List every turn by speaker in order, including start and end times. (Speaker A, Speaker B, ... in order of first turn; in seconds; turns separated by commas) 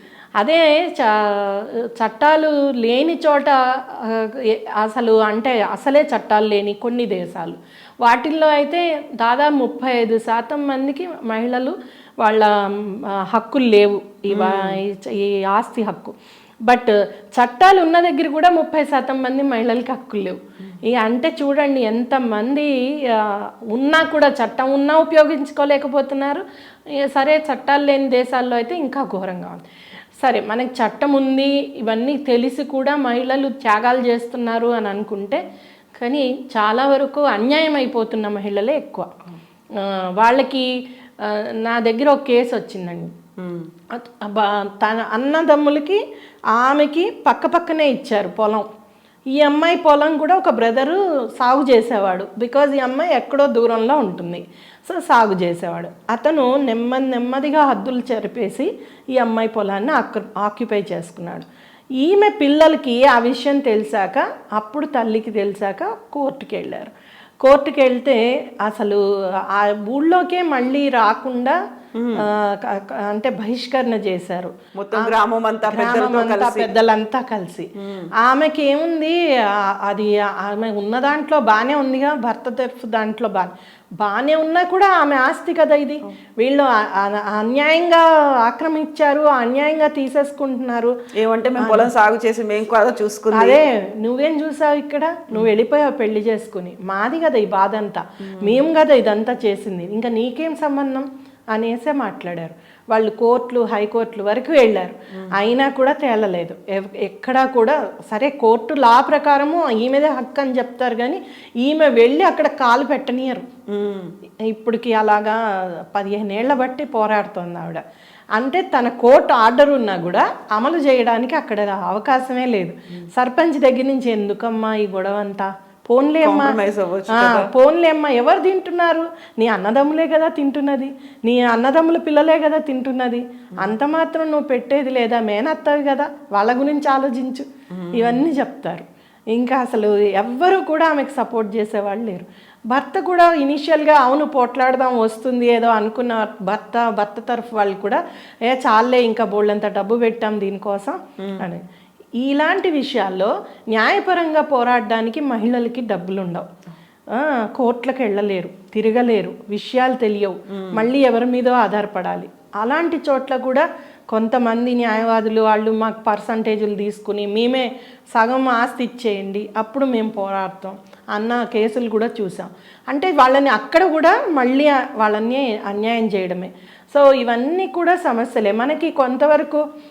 Speaker A: 0.4-16.1, Speaker B: 14.3-14.7, Speaker A: 16.7-26.4, Speaker A: 27.0-29.6, Speaker A: 30.2-35.4, Speaker A: 36.0-39.1, Speaker A: 39.8-40.7, Speaker A: 41.2-43.1, Speaker B: 43.4-43.7, Speaker A: 43.9-46.0, Speaker A: 46.5-48.6, Speaker A: 49.3-61.5, Speaker A: 62.0-66.9, Speaker A: 67.4-71.6, Speaker B: 71.9-72.2, Speaker A: 72.2-90.9, Speaker B: 74.8-76.7, Speaker B: 77.8-78.1, Speaker B: 91.2-93.6, Speaker A: 91.6-91.9, Speaker A: 93.3-113.5, Speaker B: 113.7-114.1, Speaker A: 114.5-115.4, Speaker A: 115.9-117.8, Speaker A: 118.3-126.5, Speaker B: 126.2-127.5, Speaker A: 127.1-151.6, Speaker B: 137.8-138.2, Speaker A: 152.2-156.5, Speaker A: 157.1-179.6, Speaker B: 160.5-160.9